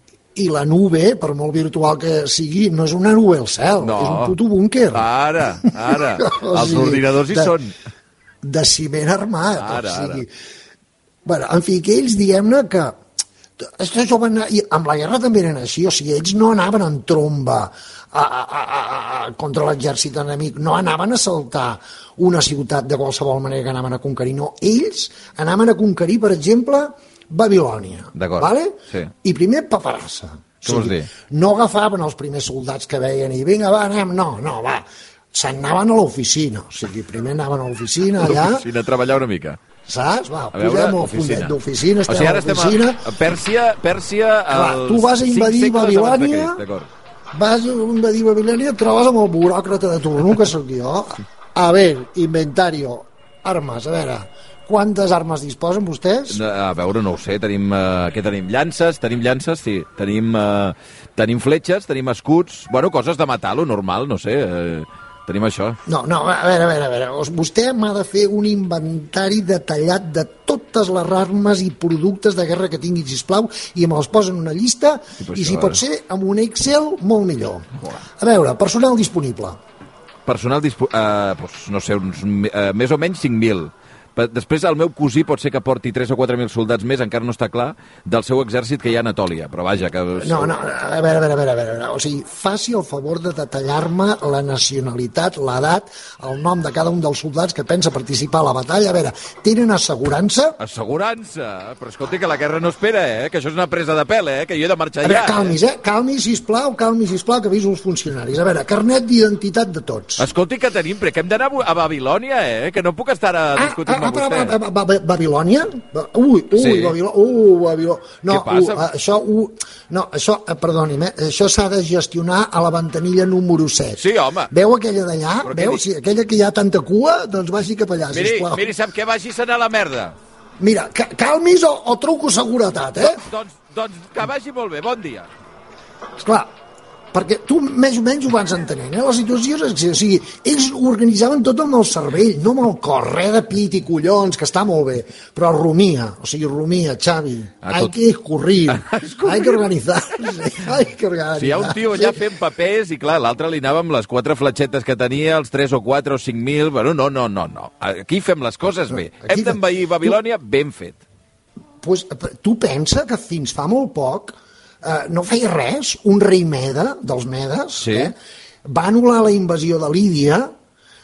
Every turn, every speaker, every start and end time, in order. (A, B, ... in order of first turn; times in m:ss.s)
0:00.3-0:05.0 A
0:03.8-0:04.4 B
0:04.9-0:07.7 B
0:05.6-0:07.6 A
0:08.4-0:10.3 A
0:09.6-0:10.2 B
0:11.2-0:13.0 A
0:13.6-0:38.7 A
0:28.1-0:29.1 B
0:30.6-0:31.1 B
0:38.2-0:39.6 B
0:39.8-0:43.1 A
0:40.5-0:46.9 B
0:44.5-0:46.6 A
0:47.3-0:56.4 A
0:56.3-1:05.8 B
1:05.8-1:19.6 A
1:15.2-1:15.8 B
1:20.2-1:30.6 B
1:30.2-1:40.6 A
1:40.6-1:45.6 B
1:45.0-1:50.3 A
1:50.2-1:54.6 B
1:53.6-2:08.7 A
1:56.5-1:57.0 B
1:58.3-1:58.8 B
2:04.0-2:04.5 B
2:05.4-2:05.8 B
2:08.1-2:10.2 B
2:10.6-2:13.2 A
2:13.0-2:15.3 B
2:16.2-2:16.5 A
2:17.1-2:32.2 A
2:27.6-2:27.9 B
2:28.7-2:29.6 B
2:31.4-2:41.0 B
2:38.9-2:40.2 A
2:41.8-2:50.5 A
2:47.8-2:48.1 B